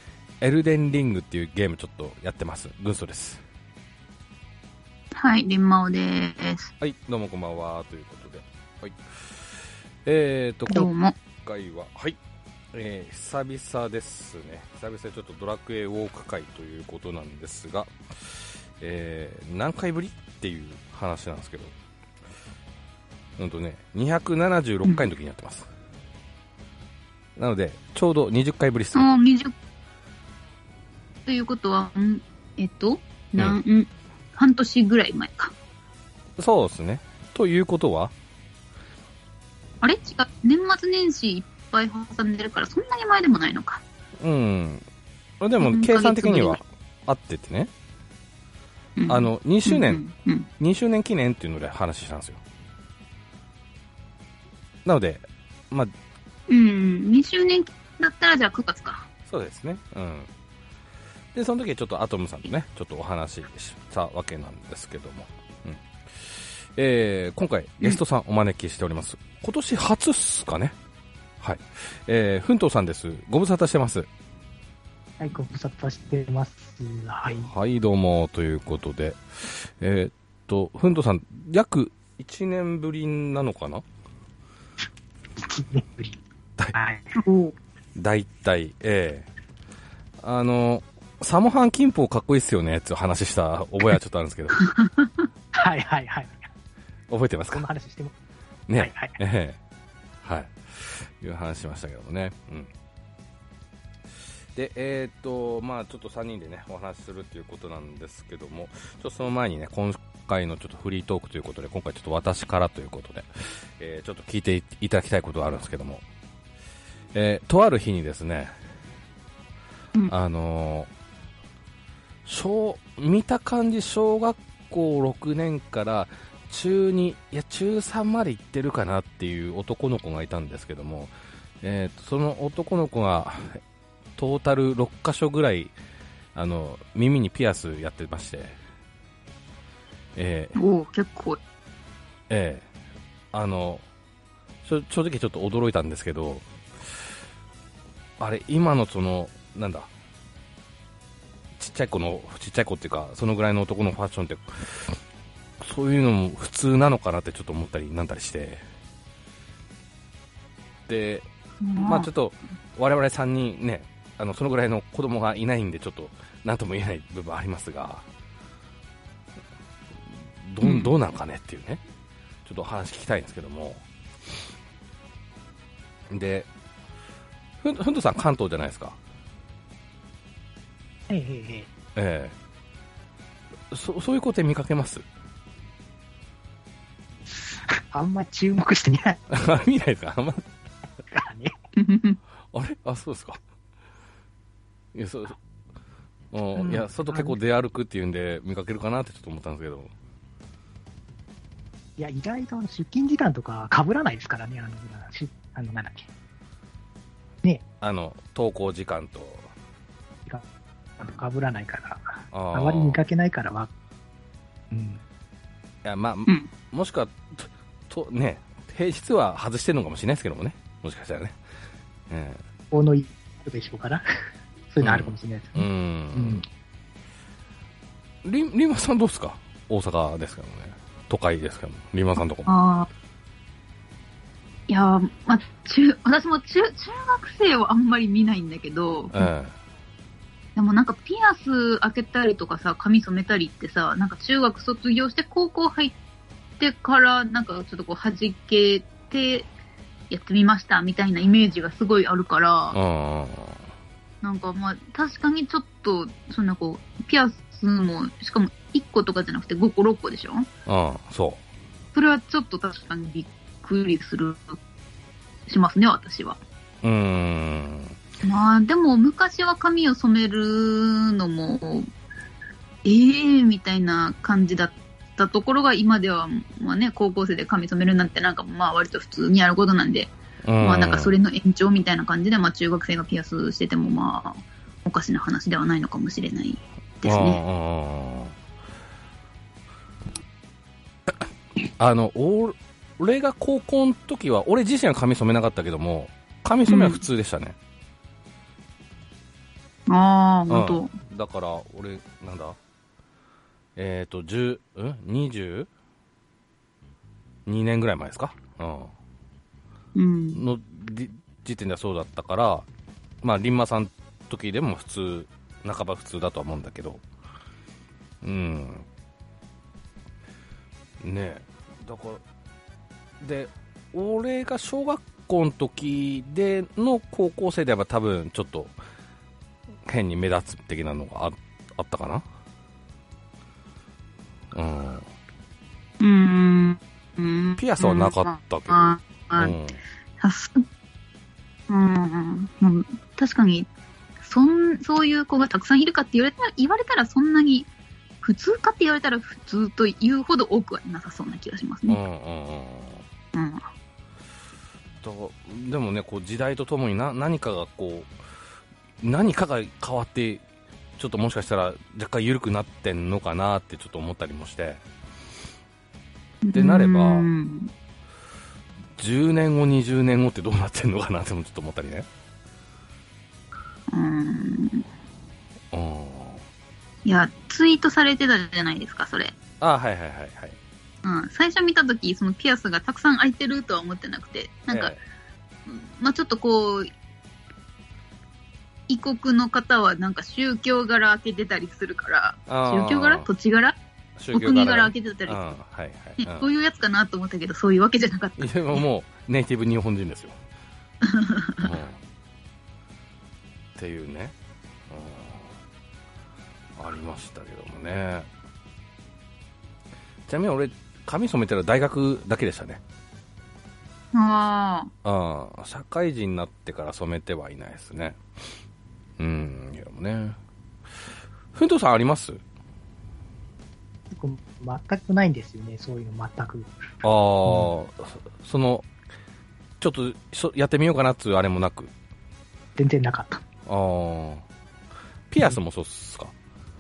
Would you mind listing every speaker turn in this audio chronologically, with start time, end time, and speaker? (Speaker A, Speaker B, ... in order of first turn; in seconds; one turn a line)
Speaker A: 0.4-3.4
Speaker B: 5.1-6.7
Speaker A: 6.8-12.2
Speaker B: 10.7-11.2
Speaker A: 12.7-21.7
Speaker A: 23.4-25.7
Speaker A: 27.4-29.1
Speaker B: 28.9-29.5
Speaker B: 31.2-35.5
Speaker A: 36.4-38.1
Speaker B: 39.8-43.8
Speaker A: 44.2-44.8
Speaker A: 45.4-47.7
Speaker B: 45.6-46.6
Speaker B: 49.0-50.5
Speaker A: 49.1-50.0
Speaker A: 50.6-52.4
Speaker A: 54.8-55.9
Speaker B: 56.5-59.1
Speaker A: 59.2-60.3
Speaker A: 61.3-70.7
Speaker A: 71.4-74.1
Speaker C: 75.2-77.5
Speaker A: 77.3-83.8
Speaker C: 85.4-86.2
Speaker C: 86.7-87.1
Speaker B: 87.1-87.6
Speaker A: 87.9-89.3
Speaker A: 90.2-94.6
Speaker B: 94.7-95.1
Speaker C: 95.5-96.5
Speaker A: 97.1-97.7
Speaker C: 97.5-98.1
Speaker A: 98.7-99.6
Speaker C: 98.8-99.2
Speaker A: 100.2-102.7
Speaker A: 104.5-113.3
Speaker A: 113.8-116.0
Speaker A: 117.1-118.5
Speaker A: 120.1-120.9
Speaker A: 122.2-133.6
Speaker A: 134.2-135.7
Speaker A: 136.3-138.6
Speaker A: 140.2-140.6
Speaker B: 140.6-141.4
Speaker A: 142.3-142.7
Speaker A: 143.3-143.8
Speaker A: 144.6-146.4
Speaker A: 148.2-149.9
Speaker A: 151.6-155.0
Speaker A: 155.6-158.6
Speaker A: 160.9-161.3
Speaker B: 161.6-162.1
Speaker A: 161.8-168.0
Speaker A: 170.4-171.8
Speaker B: 170.6-170.9
Speaker A: 172.4-173.8
Speaker A: 176.1-176.5
Speaker A: 177.6-179.0
Speaker C: 181.1-181.7
Speaker A: 181.9-182.3
Speaker A: 183.7-185.0
Speaker C: 187.3-189.2
Speaker A: 189.3-190.4
Speaker C: 191.1-191.6
Speaker B: 191.8-192.2
Speaker A: 192.5-193.4
Speaker A: 194.9-195.4
Speaker A: 196.3-199.9
Speaker C: 196.7-197.3
Speaker C: 202.0-206.1
Speaker A: 207.8-209.5
Speaker C: 211.0-213.7
Speaker A: 212.3-213.0
Speaker C: 214.7-215.0
Speaker A: 215.8-221.4
Speaker A: 222.1-222.4
Speaker C: 222.7-224.0
Speaker C: 224.7-226.4
Speaker A: 224.8-226.4
Speaker A: 228.2-232.6
Speaker B: 232.4-232.9
Speaker B: 234.7-239.2
Speaker A: 239.1-239.5
Speaker B: 240.6-245.9
Speaker B: 246.6-249.5
Speaker B: 250.1-252.8
Speaker A: 252.7-253.6
Speaker B: 254.2-260.5
Speaker A: 260.6-261.4
Speaker B: 261.9-264.6
Speaker B: 265.5-266.4
Speaker A: 266.8-267.9
Speaker B: 268.2-271.9
Speaker B: 272.8-287.4
Speaker A: 280.4-281.1
Speaker A: 287.0-288.3
Speaker A: 291.8-297.6
Speaker B: 296.7-297.0
Speaker B: 299.9-300.9
Speaker A: 300.5-302.6
Speaker A: 303.8-305.7
Speaker A: 307.4-308.9
Speaker B: 309.9-310.4
Speaker A: 310.3-312.6
Speaker A: 313.2-317.0
Speaker A: 318.2-318.9
Speaker A: 321.0-322.2
Speaker A: 323.2-328.7
Speaker A: 329.9-332.2
Speaker A: 334.5-335.1
Speaker B: 336.0-339.5
Speaker A: 337.6-339.8
Speaker B: 340.2-340.6
Speaker B: 341.7-343.7
Speaker B: 344.2-347.7
Speaker B: 348.2-352.0
Speaker A: 351.9-353.0
Speaker B: 353.3-353.6
Speaker A: 355.0-358.1
Speaker A: 359.0-360.4
Speaker A: 361.0-364.8
Speaker B: 366.4-367.7
Speaker A: 366.5-367.3
Speaker A: 369.0-372.1
Speaker B: 373.9-374.8
Speaker A: 375.7-376.4
Speaker B: 377.0-379.3
Speaker A: 379.6-380.6
Speaker B: 381.0-385.0
Speaker A: 384.7-385.0
Speaker B: 385.7-386.9
Speaker B: 388.9-393.8
Speaker A: 392.5-393.3
Speaker A: 394.2-396.5
Speaker B: 394.3-395.4
Speaker B: 396.2-398.5
Speaker A: 398.4-400.3
Speaker B: 401.0-401.7
Speaker A: 401.6-402.0
Speaker A: 403.8-404.3
Speaker A: 404.9-405.5
Speaker A: 406.8-408.3
Speaker A: 410.3-412.8
Speaker B: 414.1-414.9
Speaker A: 415.0-418.2
Speaker A: 419.2-420.4
Speaker A: 421.5-422.4
Speaker C: 424.1-426.7
Speaker A: 427.0-428.9
Speaker A: 429.8-431.9
Speaker C: 432.8-433.4
Speaker A: 433.6-434.4
Speaker A: 435.3-436.3